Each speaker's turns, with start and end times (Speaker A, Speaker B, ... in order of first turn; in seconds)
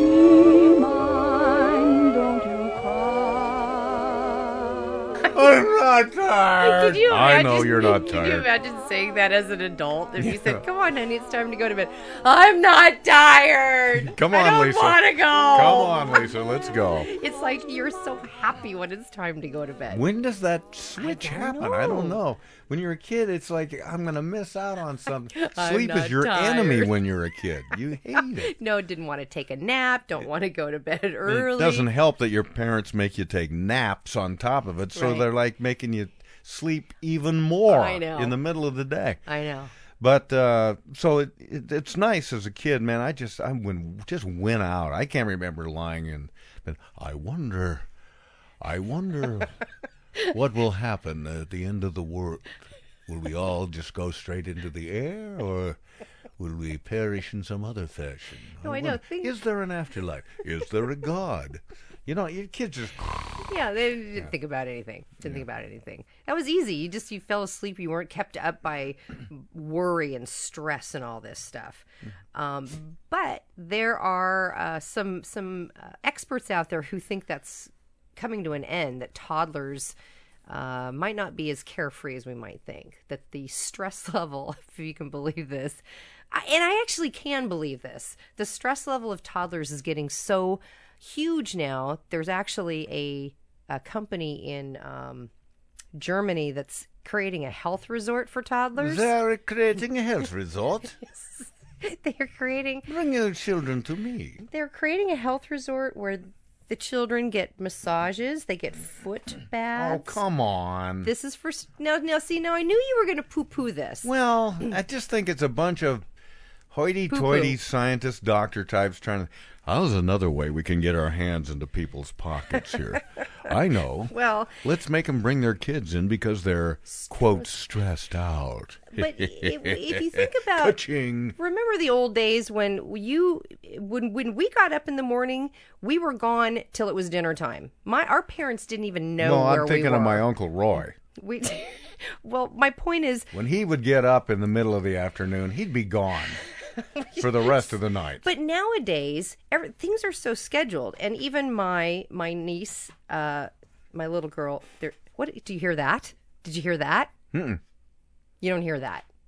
Speaker A: 1.1-3.8, 6.6-16.3, 17.1-20.0, 21.0-22.2, 25.3-26.9, 28.4-31.9, 34.9-35.2, 37.7-38.4, 39.3-39.7, 58.6-59.3, 63.5-80.0, 80.5-95.3, 95.9-99.1, 101.1-102.9, 104.5-110.2, 111.0-114.1, 117.1-117.5, 124.1-124.5, 126.9-127.5, 128.9-130.8, 131.4-140.2, 141.2-143.3, 147.0-157.1, 158.4-159.1
Speaker B: 5.3-8.5, 10.2-10.6, 13.9-17.1, 19.9-28.5, 31.2-39.2, 40.0-47.9, 48.6-49.5, 50.3-55.8, 56.4-63.4, 98.8-101.0, 102.9-104.4, 109.7-111.1, 114.0-116.0, 116.7-131.4, 139.2-140.9, 143.3-146.4, 147.2-148.2, 157.3-157.6